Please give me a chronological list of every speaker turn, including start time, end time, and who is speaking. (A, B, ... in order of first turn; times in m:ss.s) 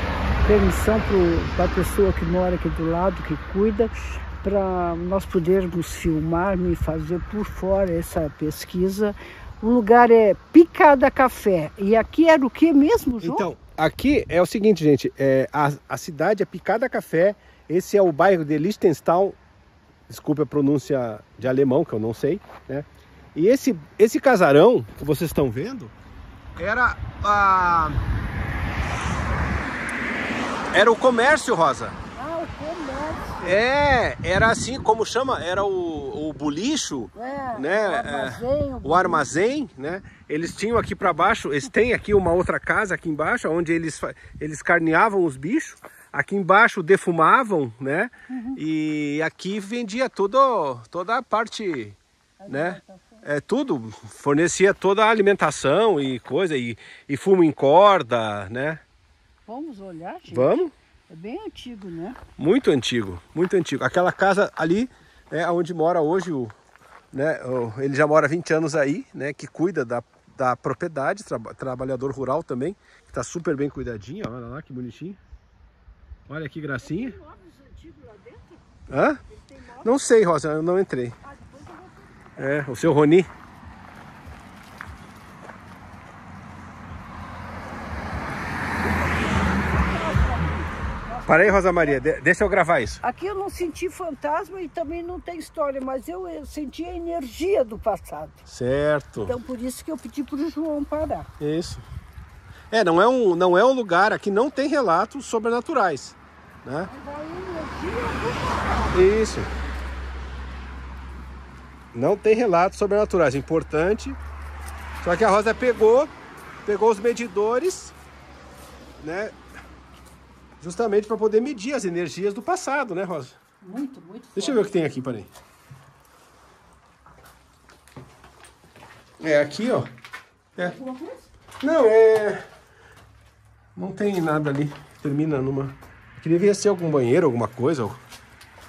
0:00.4-0:13.5 A
0:13.2-0:19.4 B
0:20.1-0:25.9 B
0:26.6-0:28.0 B
0:30.7-0:32.0 B
0:32.1-0:33.4 A
0:33.4-0:58.8 B
0:37.1-0:39.3 A
0:48.3-0:48.6 A
0:52.4-0:53.2 A
0:59.4-1:02.2 A
1:00.3-1:00.7 B
1:02.4-1:06.5 B
1:07.1-1:15.2 B
1:16.3-1:17.2 B
1:16.8-1:19.9 A
1:18.9-1:19.2 B
1:19.8-1:21.2 B
1:21.2-1:22.6 A
1:22.4-1:23.3 B
1:28.8-1:32.0 A
1:31.2-1:33.0 B
1:33.0-1:38.4 A
1:38.4-1:39.3 B
1:39.2-1:41.3 A
1:41.4-1:41.8 B
1:42.7-1:46.9 B
1:46.8-1:49.0 A
1:48.9-1:49.5 B
1:51.9-1:54.2 B
1:55.0-1:56.1 B
1:56.6-1:58.0 B
1:59.0-1:59.3 B
2:00.6-2:03.4 B
2:03.6-2:04.7 A
2:04.3-2:05.3 B
2:09.2-2:09.9 B
2:10.6-2:11.3 A
2:11.6-2:12.4 B
2:13.8-2:18.0 B